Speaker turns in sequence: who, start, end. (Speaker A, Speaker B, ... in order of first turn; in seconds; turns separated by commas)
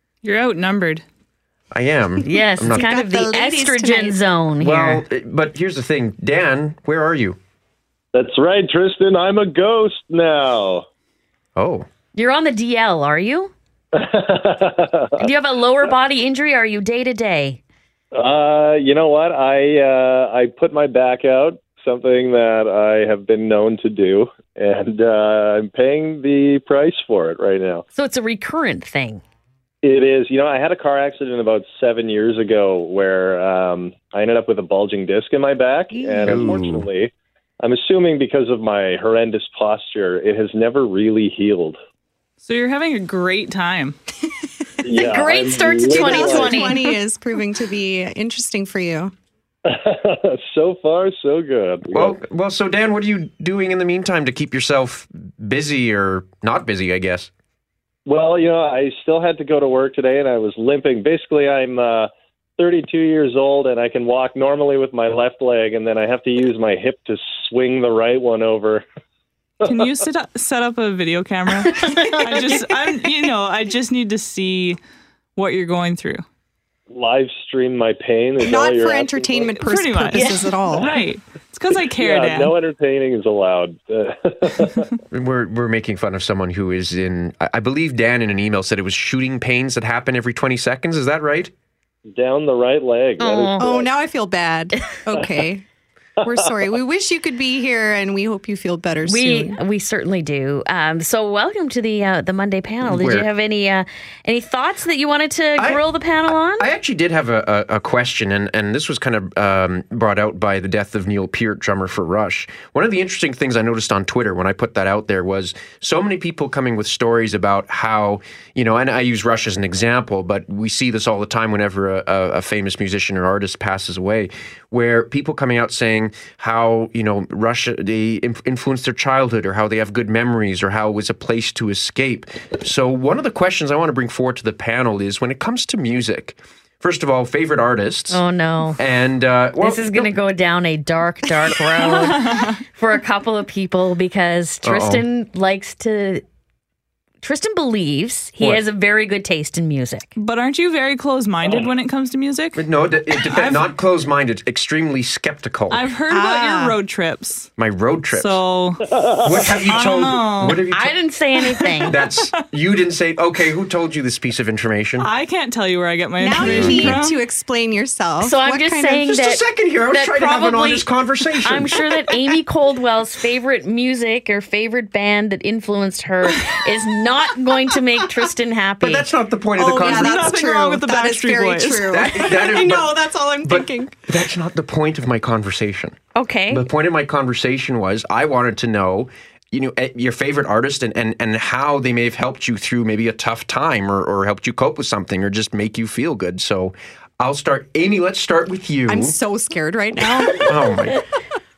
Speaker A: 0.2-1.0, Speaker B: 1.7-2.9, Speaker C: 2.2-5.0, Speaker D: 2.7-4.2, Speaker B: 4.6-7.4, Speaker E: 8.1-10.8, Speaker B: 11.6-11.9, Speaker C: 12.1-13.5, Speaker E: 13.9-15.2, Speaker C: 15.2-17.6, Speaker E: 18.2-27.8, Speaker C: 27.9-29.2, Speaker E: 29.8-37.1, Speaker B: 36.2-36.9, Speaker E: 37.6-41.8, Speaker A: 42.4-44.0, Speaker E: 44.9-46.4, Speaker C: 44.9-46.8, Speaker D: 45.9-49.1, Speaker E: 49.7-52.1, Speaker B: 51.9-57.3, Speaker E: 58.1-68.8, Speaker A: 69.7-74.8, Speaker C: 71.8-72.2, Speaker A: 75.4-76.2, Speaker E: 76.9-79.5, Speaker D: 78.4-80.9, Speaker A: 79.4-82.5, Speaker E: 82.0-84.9, Speaker B: 85.1-91.5, Speaker E: 92.2-93.9, Speaker C: 93.2-93.7, Speaker D: 93.6-95.6, Speaker D: 96.2-99.6, Speaker C: 99.1-106.7, Speaker B: 102.8-103.3, Speaker B: 105.6-105.8, Speaker B: 106.6-138.2, Speaker C: 138.1-138.8, Speaker B: 138.8-140.1, Speaker C: 139.6-146.2, Speaker A: 141.8-142.6, Speaker B: 144.6-145.1, Speaker C: 147.2-150.1, Speaker A: 150.2-153.7, Speaker B: 152.6-155.8, Speaker A: 155.7-157.5, Speaker D: 156.1-156.8, Speaker B: 157.6-158.4, Speaker A: 158.1-160.6, Speaker E: 158.9-159.3, Speaker B: 159.2-160.9, Speaker C: 160.7-162.0, Speaker A: 161.5-162.2, Speaker B: 161.9-165.1, Speaker A: 165.0-167.2, Speaker D: 166.2-169.1, Speaker B: 166.4-167.0, Speaker C: 168.2-170.9, Speaker B: 169.1-171.8, Speaker C: 171.4-179.1, Speaker B: 178.8-180.3, Speaker D: 179.6-184.0, Speaker A: 179.8-182.0, Speaker B: 181.9-186.0, Speaker C: 186.2-186.7, Speaker B: 186.5-199.2, Speaker D: 198.9-200.6, Speaker B: 200.3-201.1